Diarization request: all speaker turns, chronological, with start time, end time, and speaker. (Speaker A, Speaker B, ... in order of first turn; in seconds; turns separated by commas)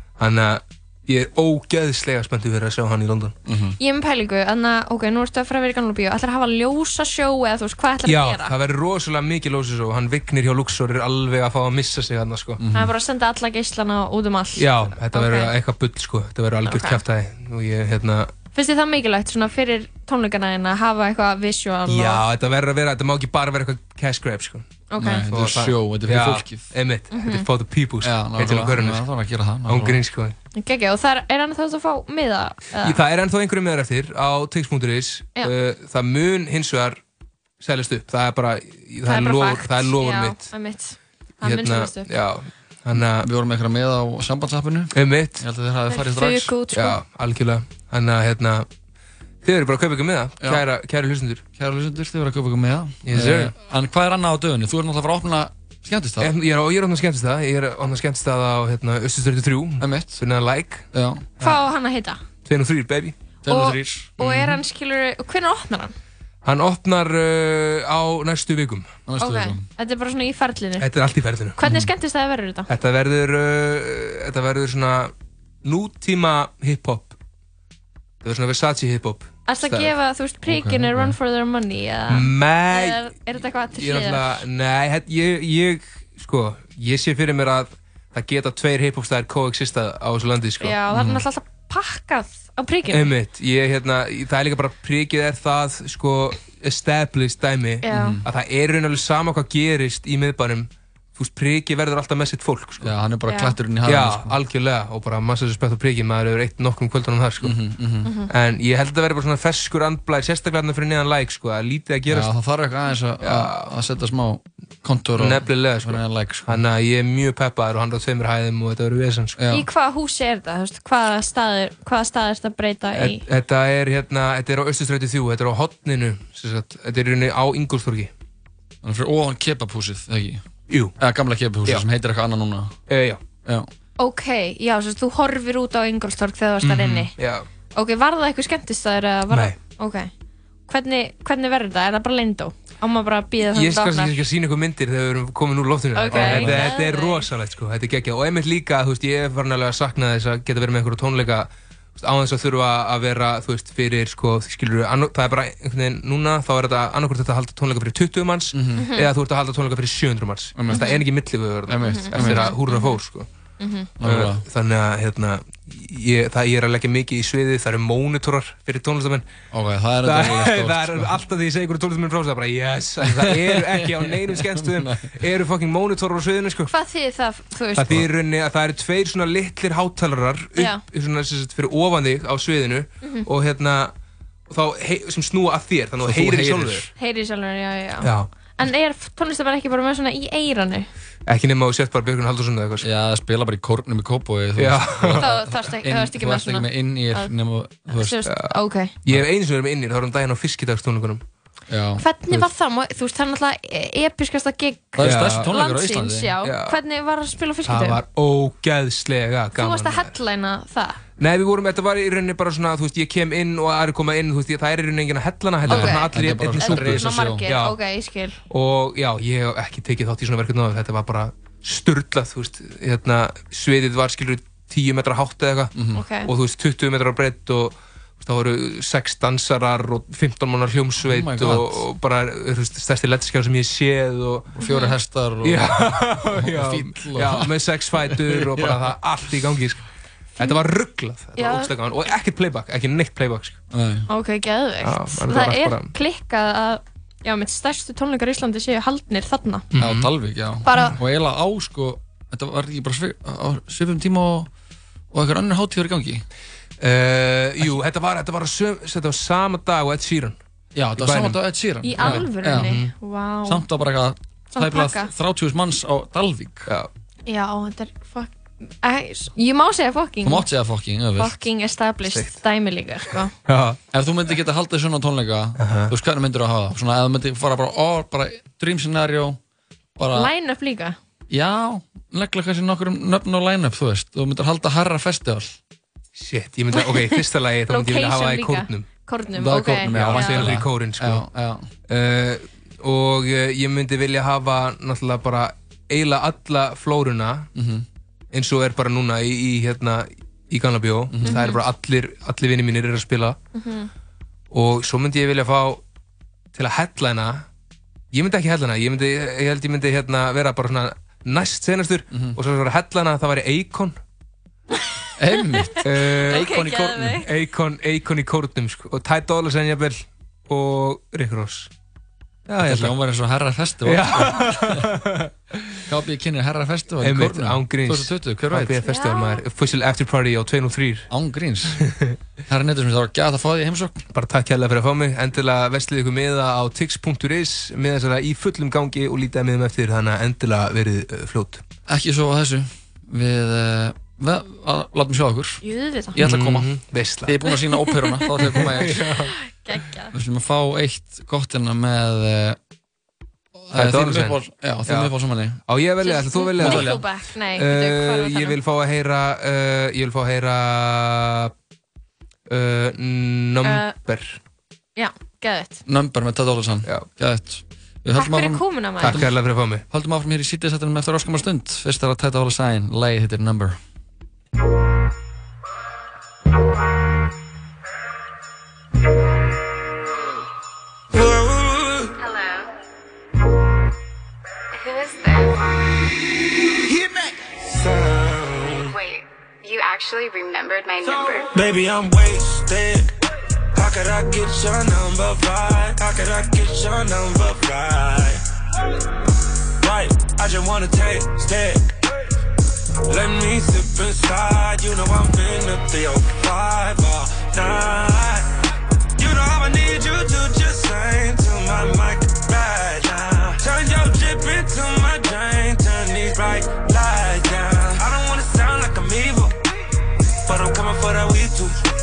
Speaker A: 0.2-3.4, Speaker B: 3.5-3.8, Speaker C: 3.8-8.6, Speaker A: 8.0-12.6, Speaker B: 12.6-12.9, Speaker C: 12.7-15.5, Speaker A: 14.6-18.3, Speaker C: 16.6-17.0, Speaker C: 18.5-22.2, Speaker A: 21.9-24.7, Speaker C: 24.9-25.3, Speaker B: 25.0-26.7, Speaker A: 25.3-29.1, Speaker C: 27.1-27.5, Speaker B: 28.0-30.0, Speaker A: 29.7-30.4, Speaker C: 30.6-33.0, Speaker A: 32.8-37.0, Speaker A: 37.6-40.5, Speaker C: 39.0-42.1, Speaker A: 41.4-43.3, Speaker B: 43.0-46.5, Speaker A: 45.0-45.4, Speaker C: 45.9-47.0, Speaker A: 46.7-48.7, Speaker A: 49.4-51.4, Speaker B: 51.6-56.3, Speaker A: 53.0-53.5, Speaker A: 56.2-60.9, Speaker B: 59.8-60.2, Speaker B: 60.9-61.3, Speaker C: 61.4-62.2, Speaker A: 62.5-63.2, Speaker B: 63.4-64.2, Speaker C: 63.5-66.0, Speaker A: 64.2-64.6, Speaker A: 66.5-68.9, Speaker B: 69.1-69.7, Speaker C: 69.2-70.9, Speaker A: 70.8-71.6, Speaker C: 71.6-72.7, Speaker B: 71.6-71.9, Speaker A: 72.7-75.1, Speaker A: 75.6-77.2, Speaker A: 78.2-79.9, Speaker C: 79.5-84.5, Speaker B: 80.5-81.2, Speaker A: 82.1-83.1, Speaker A: 83.7-90.8, Speaker C: 90.6-93.1, Speaker B: 90.9-91.2, Speaker A: 92.9-103.0, Speaker C: 97.8-98.2, Speaker B: 97.9-98.2, Speaker B: 102.8-104.4, Speaker C: 103.3-103.6, Speaker A: 103.8-107.6, Speaker B: 107.4-108.1, Speaker C: 108.0-108.3, Speaker A: 108.3-112.3, Speaker B: 112.1-116.6, Speaker A: 113.2-113.7, Speaker A: 115.2-119.4, Speaker B: 119.4-119.7, Speaker C: 119.5-123.3, Speaker A: 122.9-128.1, Speaker B: 128.8-130.4, Speaker A: 130.7-130.9, Speaker B: 131.0-132.8, Speaker A: 132.9-133.2, Speaker C: 134.0-137.1, Speaker A: 136.6-137.5, Speaker C: 137.8-140.1, Speaker A: 139.3-139.6, Speaker C: 140.7-144.2, Speaker A: 143.5-163.3, Speaker C: 145.9-147.3, Speaker B: 146.1-146.7, Speaker B: 158.5-158.9, Speaker C: 158.8-159.1, Speaker B: 160.6-160.9, Speaker C: 160.7-161.0, Speaker B: 161.7-162.5, Speaker C: 161.8-163.0, Speaker C: 163.6-163.9, Speaker B: 164.0-164.4, Speaker A: 164.0-169.2, Speaker B: 169.5-171.1, Speaker A: 170.0-176.7, Speaker B: 173.0-175.2, Speaker C: 176.7-178.1, Speaker A: 177.8-183.9, Speaker C: 180.6-180.8, Speaker C: 183.0-183.3, Speaker A: 184.5-186.9, Speaker B: 186.0-186.9, Speaker C: 187.0-190.9, Speaker A: 188.0-188.3, Speaker A: 191.3-192.8, Speaker B: 192.8-198.2, Speaker A: 194.6-195.3, Speaker C: 195.2-197.3, Speaker C: 197.9-198.9, Speaker A: 198.3-198.5, Speaker A: 199.1-201.2, Speaker B: 201.7-202.1, Speaker C: 202.0-208.0, Speaker B: 205.0-206.4, Speaker A: 205.0-205.5, Speaker A: 206.4-206.8, Speaker A: 207.7-210.1, Speaker C: 209.6-211.0, Speaker A: 211.2-217.8, Speaker B: 215.6-217.4, Speaker C: 215.7-218.4, Speaker A: 218.5-234.5, Speaker B: 225.8-226.1, Speaker C: 225.9-226.3, Speaker B: 231.0-231.8, Speaker B: 234.5-238.9, Speaker C: 234.6-235.0, Speaker A: 235.4-239.8, Speaker A: 240.4-243.6, Speaker C: 241.4-241.7, Speaker B: 243.7-244.1, Speaker C: 244.1-249.7, Speaker A: 244.8-245.9, Speaker A: 249.7-250.1, Speaker B: 249.8-254.5, Speaker C: 250.7-251.0, Speaker B: 255.1-256.2, Speaker A: 256.8-260.4, Speaker B: 260.8-262.8, Speaker A: 261.0-261.4, Speaker C: 261.8-263.6, Speaker A: 262.0-262.9, Speaker B: 263.4-266.7, Speaker C: 264.5-265.1, Speaker C: 267.3-270.5, Speaker B: 270.2-271.4, Speaker C: 271.2-273.3, Speaker A: 272.1-272.4, Speaker A: 273.5-273.8, Speaker B: 273.9-279.4, Speaker A: 275.6-275.9, Speaker B: 280.0-280.3, Speaker C: 280.1-281.0, Speaker B: 281.3-285.6, Speaker A: 286.2-288.9, Speaker C: 286.7-290.6, Speaker A: 289.4-291.3, Speaker B: 289.4-291.7, Speaker A: 291.9-297.5, Speaker B: 297.6-297.9, Speaker A: 298.3-303.4, Speaker B: 301.1-301.4, Speaker C: 301.2-301.6, Speaker C: 303.6-303.9, Speaker A: 304.5-305.8, Speaker A: 306.6-307.5, Speaker A: 308.1-314.0, Speaker B: 312.1-312.4, Speaker B: 315.2-317.2, Speaker C: 315.3-317.3, Speaker A: 315.8-321.7, Speaker B: 322.5-324.9, Speaker A: 322.5-323.0, Speaker A: 323.8-325.3, Speaker B: 325.9-328.9, Speaker A: 327.0-331.1, Speaker C: 328.9-329.4, Speaker B: 331.1-331.8, Speaker A: 331.9-332.1, Speaker B: 332.5-334.0, Speaker A: 334.1-341.6, Speaker B: 341.9-345.6, Speaker C: 345.6-346.2, Speaker B: 346.1-349.1, Speaker A: 346.2-347.4, Speaker C: 347.4-350.1, Speaker A: 348.5-349.3, Speaker B: 350.1-352.6, Speaker B: 353.6-355.6, Speaker A: 353.7-355.1, Speaker A: 355.7-361.5, Speaker C: 356.0-358.6, Speaker B: 356.6-357.0, Speaker A: 362.5-364.4, Speaker C: 363.6-364.0, Speaker C: 365.0-365.8, Speaker B: 365.9-369.3, Speaker C: 368.1-369.3, Speaker A: 369.0-369.9, Speaker B: 369.9-373.8, Speaker D: 381.1-382.1, Speaker E: 382.2-382.7, Speaker E: 384.7-385.6, Speaker D: 387.7-388.9, Speaker E: 388.9-391.5, Speaker D: 391.5-393.1, Speaker D: 393.8-398.4, Speaker D: 399.8-401.9, Speaker D: 403.1-408.5, Speaker D: 409.2-419.6, Speaker D: 420.4-421.8